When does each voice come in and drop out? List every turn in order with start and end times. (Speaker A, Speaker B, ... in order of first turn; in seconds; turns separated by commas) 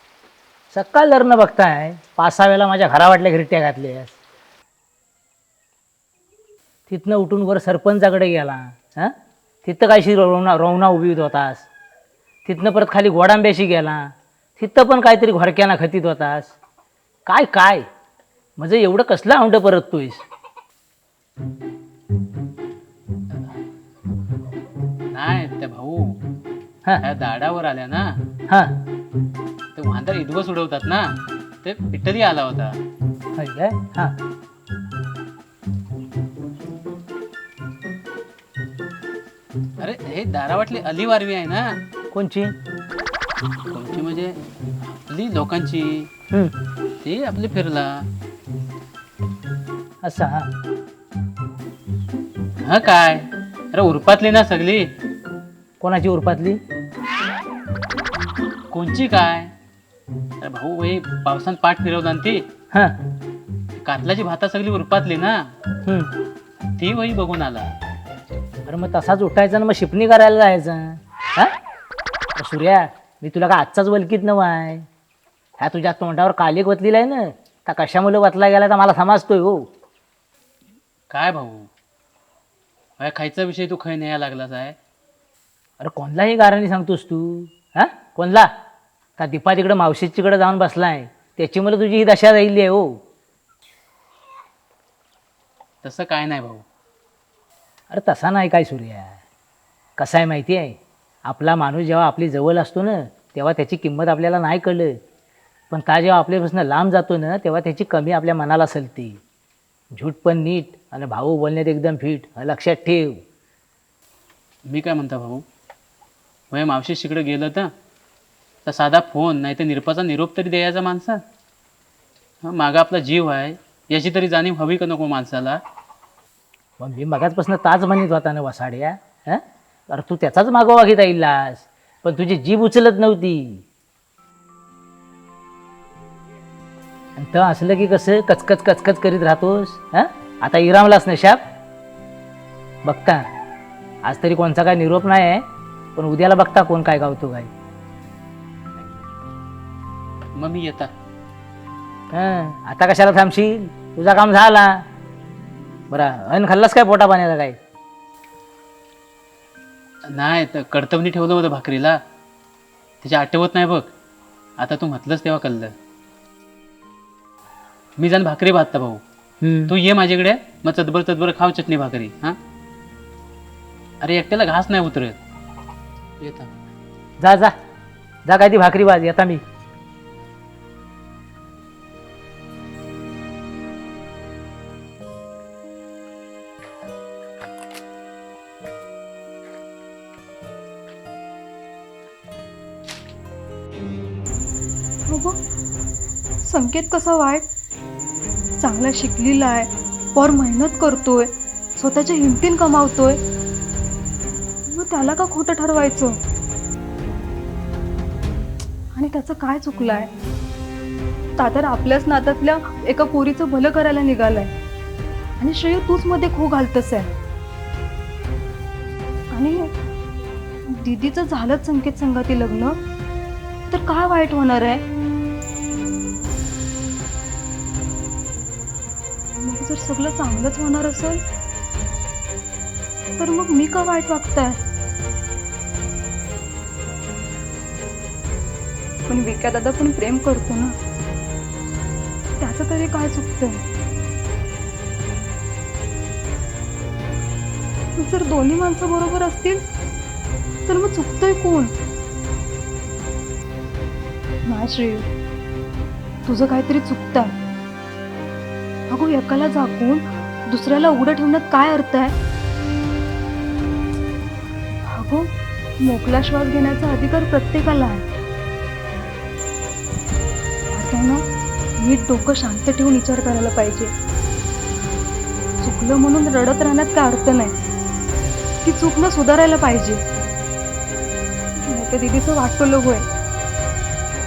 Speaker A: 0.7-4.1, Speaker A: 6.9-11.7, Speaker A: 12.4-16.5, Speaker A: 17.2-17.9, Speaker A: 18.6-20.2, Speaker B: 25.1-26.0, Speaker B: 27.0-28.1, Speaker B: 29.8-31.1, Speaker B: 31.6-32.7, Speaker A: 33.3-34.1, Speaker B: 39.8-41.6, Speaker A: 42.1-42.5, Speaker B: 43.7-44.3, Speaker B: 44.9-46.1, Speaker B: 47.0-48.0, Speaker A: 50.0-50.5, Speaker B: 52.6-54.9, Speaker A: 55.8-56.6, Speaker B: 58.7-59.5, Speaker B: 60.4-62.4, Speaker B: 63.8-65.4, Speaker A: 65.8-66.1, Speaker B: 66.8-67.7, Speaker A: 68.7-71.5, Speaker A: 72.3-74.8, Speaker A: 75.6-79.7, Speaker B: 81.1-81.7, Speaker B: 83.0-84.8, Speaker A: 85.8-88.5, Speaker A: 89.2-93.0, Speaker B: 95.8-96.6, Speaker A: 97.9-99.2, Speaker A: 100.0-105.0, Speaker A: 105.7-109.2, Speaker A: 109.9-113.2, Speaker B: 114.7-115.4, Speaker B: 116.5-117.7, Speaker B: 118.7-121.2, Speaker B: 122.4-125.6, Speaker A: 126.8-133.6, Speaker A: 137.2-141.4, Speaker A: 142.8-143.2, Speaker A: 144.0-145.4, Speaker A: 145.9-147.5, Speaker B: 150.3-150.9, Speaker A: 152.1-154.8, Speaker A: 155.9-157.6, Speaker B: 160.1-162.0, Speaker B: 163.0-163.9, Speaker B: 164.6-165.7, Speaker B: 168.0-169.0, Speaker A: 169.4-169.7, Speaker B: 169.7-172.4, Speaker B: 174.0-175.2, Speaker B: 176.2-176.5, Speaker A: 177.2-177.5, Speaker A: 178.2-179.4, Speaker C: 195.1-195.4, Speaker C: 196.5-197.4, Speaker C: 198.6-203.2, Speaker C: 204.7-206.2, Speaker C: 208.9-210.1, Speaker C: 211.4-214.5, Speaker C: 215.4-217.1, Speaker C: 219.3-219.7, Speaker C: 220.8-222.8, Speaker C: 223.7-224.8, Speaker C: 229.4-231.2, Speaker C: 233.2-234.6, Speaker C: 239.1-240.7, Speaker C: 242.4-243.6, Speaker C: 248.0-249.6, Speaker C: 250.7-251.7, Speaker C: 254.4-255.1, Speaker C: 256.2-257.3, Speaker C: 258.9-262.1, Speaker C: 264.9-268.1, Speaker C: 270.7-271.2, Speaker C: 271.8-273.9, Speaker C: 275.6-277.5, Speaker C: 278.6-280.0, Speaker C: 281.6-283.1